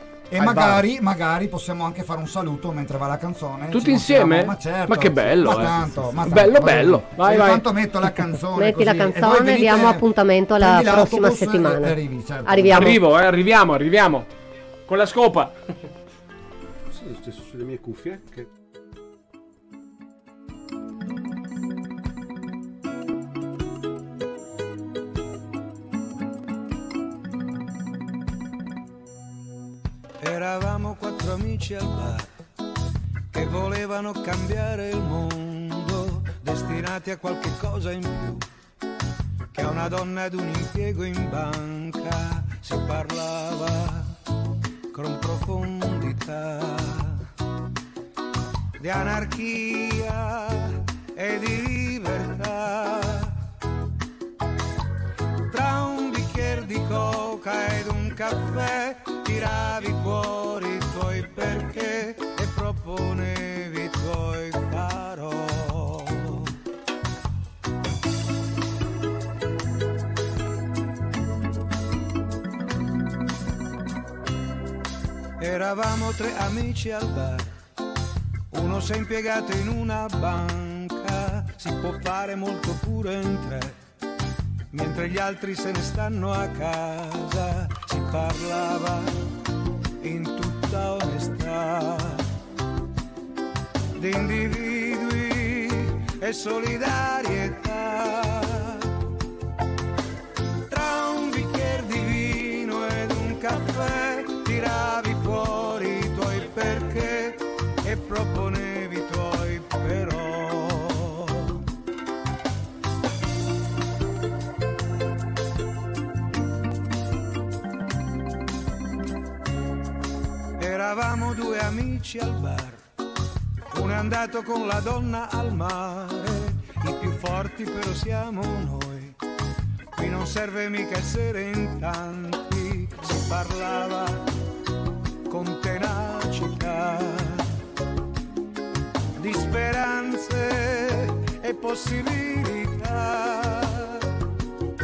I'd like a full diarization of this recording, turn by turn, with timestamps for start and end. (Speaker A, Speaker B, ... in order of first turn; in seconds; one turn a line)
Speaker A: 0.3-10.1
Speaker B: 0.4-0.8
Speaker C: 3.7-7.6
Speaker D: 8.6-13.0
Speaker A: 10.6-13.0
Speaker C: 12.7-14.3
Speaker C: 14.9-15.5
Speaker B: 16.9-18.5
Speaker E: 30.2-32.3
Speaker E: 33.3-38.5
Speaker E: 39.5-44.1
Speaker E: 44.9-47.3
Speaker E: 48.8-53.3
Speaker E: 55.5-66.5
Speaker E: 75.4-77.5
Speaker E: 78.5-83.8
Speaker E: 84.7-89.1
Speaker E: 90.0-92.2
Speaker E: 94.0-98.9
Speaker E: 100.7-111.6
Speaker E: 120.6-122.8
Speaker E: 123.7-129.2
Speaker E: 129.9-134.3
Speaker E: 135.3-137.5
Speaker E: 139.2-144.1